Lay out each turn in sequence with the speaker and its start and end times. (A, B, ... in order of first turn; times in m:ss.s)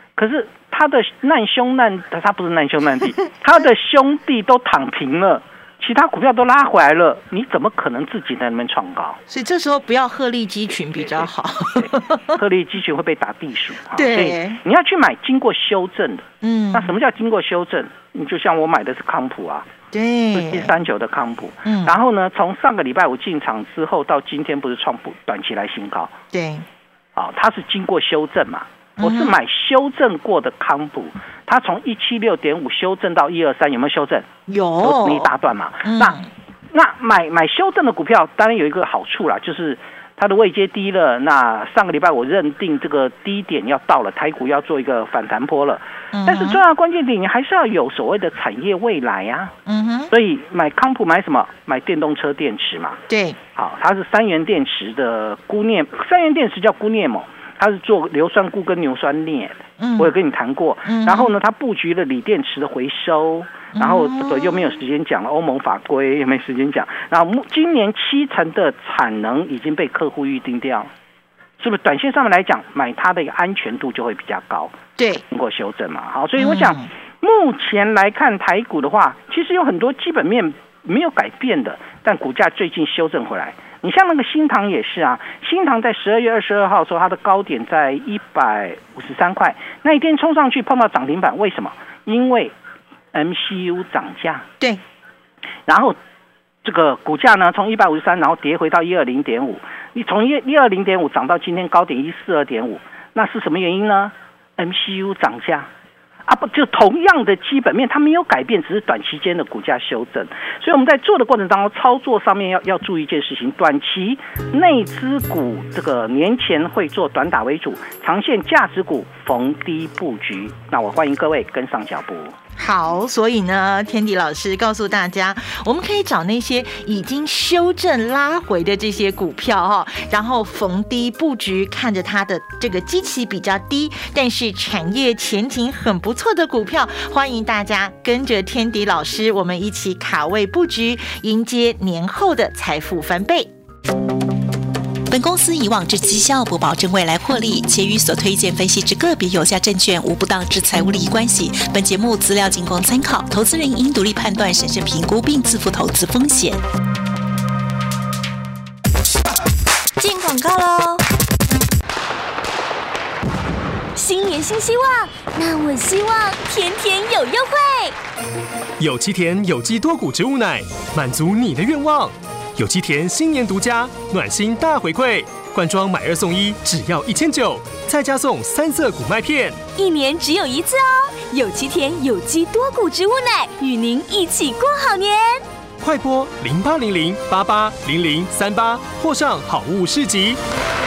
0:00.2-0:09.2 A
0:09.3-0:12.4 B
0:11.0-0:19.7 A
0:13.9-0:14.6 B
0:16.4-0:16.9 B
0:19.9-0:20.8 B
0:20.3-0:26.1 A
0:21.6-0:22.0 B
0:26.3-0:26.6 B
0:27.2-0:34.2 A
0:29.0-0:29.3 B
0:34.5-0:35.3 B
0:34.8-0:36.2 A
0:35.8-0:36.3 B
0:36.7-0:49.5 A
0:46.1-0:46.6 B
0:49.6-0:50.1 B
0:50.1-0:53.0 A
0:53.1-0:53.4 B
0:53.6-1:10.9 A
0:59.8-1:00.1 B
1:00.8-1:01.3 B
1:03.7-1:04.8 B
1:11.6-1:14.7 A
1:15.0-1:15.2 B
1:15.3-1:32.5 A
1:16.4-1:16.9 B
1:33.1-1:34.4 A
1:35.7-1:36.0 A
1:36.6-1:45.7 A
1:46.2-2:02.3 A
2:02.6-2:23.5 B
2:25.1-2:36.6 C
2:40.1-2:41.0 D
2:44.0-2:47.9 D
2:48.8-2:59.6 E
2:59.7-3:05.4 D
3:05.8-3:10.4 E